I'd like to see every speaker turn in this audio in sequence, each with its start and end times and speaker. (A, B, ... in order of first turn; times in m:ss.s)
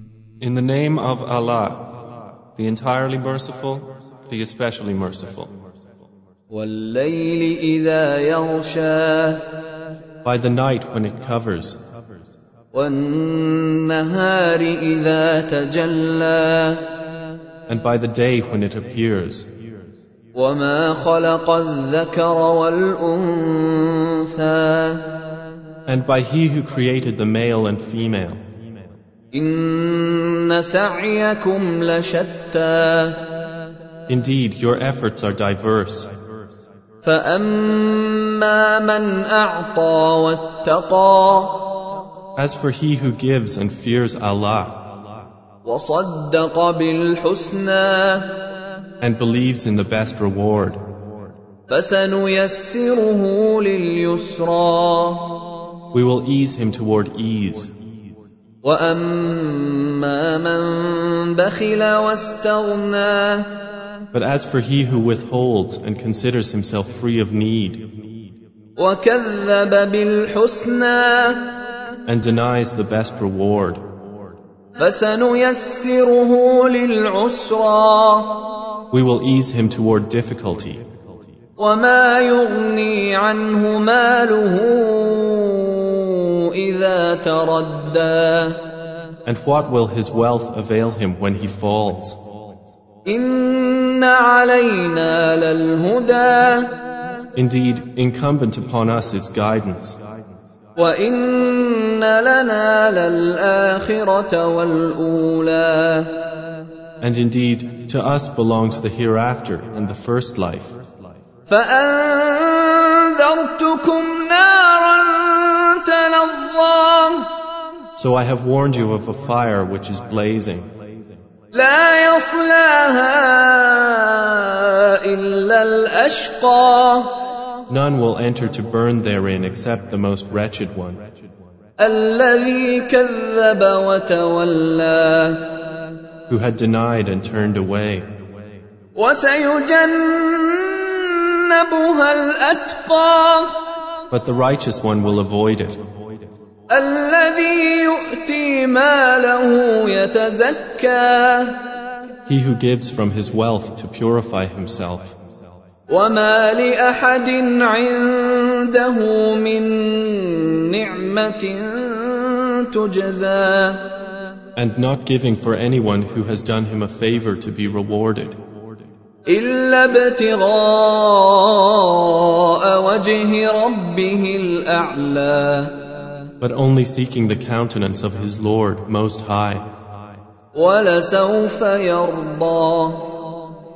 0:00.4-0:01.9 A
0:02.6-0:05.5 A
0:06.5-0:09.5 B
0:10.2-0:11.8 A
0:12.7-0:17.0 B
0:17.7-0:19.5 A
0:20.3-0:25.1 B
0:25.9-0:28.4 A
0:29.3-0:33.4 B
0:34.1-0:36.1 A
0:37.0-0:41.8 B
0:42.4-0:44.8 A
0:45.6-0:48.4 B
0:49.0-0:50.8 A
0:51.7-0:55.4 B
0:55.9-0:57.7 A
0:58.6-1:03.5 B
1:04.1-1:07.8 A
1:08.8-1:11.5 B
1:12.1-1:13.8 A
1:14.8-1:18.5 B
1:18.9-1:20.8 A
1:21.6-1:28.7 B
1:29.2-1:32.2 A
1:33.0-1:36.8 B
1:37.3-1:40.0 A
1:40.8-1:46.3 B
1:47.0-1:50.8 A
1:51.5-1:57.3 B
1:58.0-2:00.7 A
2:01.5-2:07.2 B
2:07.7-2:11.0 A
2:11.8-2:15.7 B
2:16.3-2:18.1 A
2:18.9-2:23.6 B
2:24.1-2:25.8 A
2:26.7-2:31.7 B
2:32.3-2:35.2 A
2:35.9-2:43.9 B
2:44.6-2:48.4 A
2:49.2-2:56.0 B
2:56.4-2:59.7 A
3:00.5-3:03.3 B